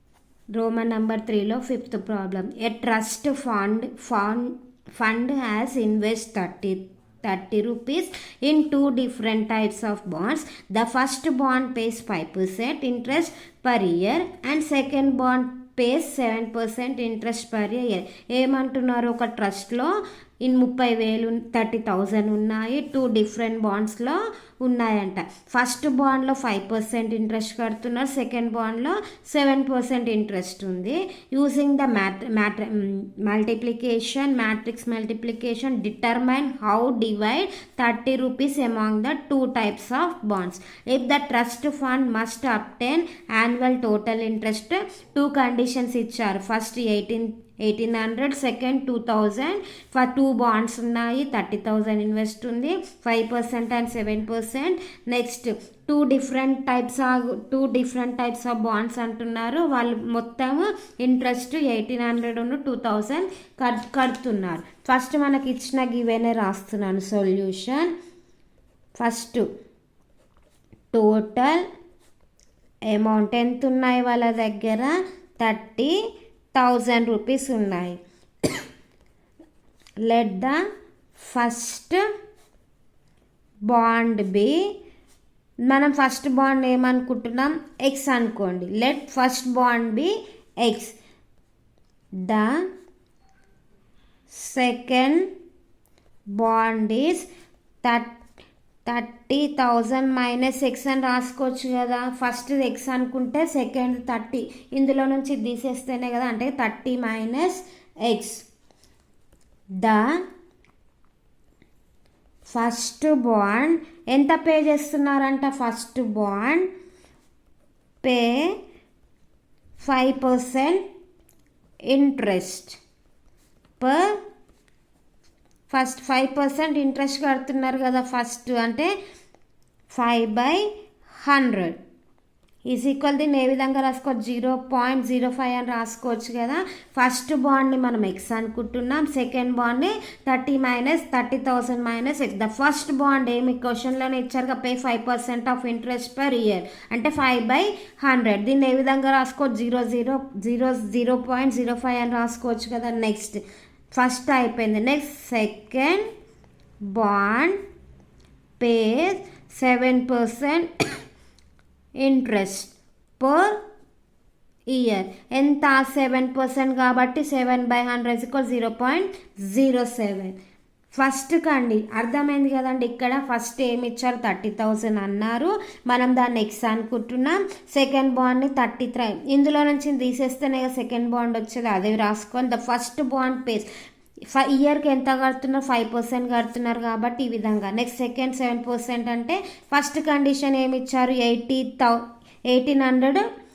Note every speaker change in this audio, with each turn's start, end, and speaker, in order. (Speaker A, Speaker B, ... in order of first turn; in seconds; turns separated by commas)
Speaker A: 0.6-67.9, Speaker A: 69.0-69.5, Speaker A: 70.9-71.7, Speaker A: 72.9-76.0, Speaker A: 76.5-78.0, Speaker A: 80.1-80.6, Speaker A: 81.2-82.0, Speaker A: 83.7-84.6, Speaker A: 85.7-91.0, Speaker A: 92.2-92.6, Speaker A: 94.3-95.3, Speaker A: 96.3-97.3, Speaker A: 97.8-98.1, Speaker A: 98.9-108.5, Speaker A: 109.8-110.2, Speaker A: 112.5-116.7, Speaker A: 118.0-118.5, Speaker A: 119.8-120.9, Speaker A: 121.9-122.8, Speaker A: 123.8-124.2, Speaker A: 125.7-128.9, Speaker A: 129.9-130.7, Speaker A: 131.2-131.8, Speaker A: 132.7-153.4, Speaker A: 153.9-156.1, Speaker A: 156.9-157.6, Speaker A: 158.6-160.7, Speaker A: 162.0-163.6, Speaker A: 164.7-170.3, Speaker A: 170.9-183.7, Speaker A: 184.3-193.2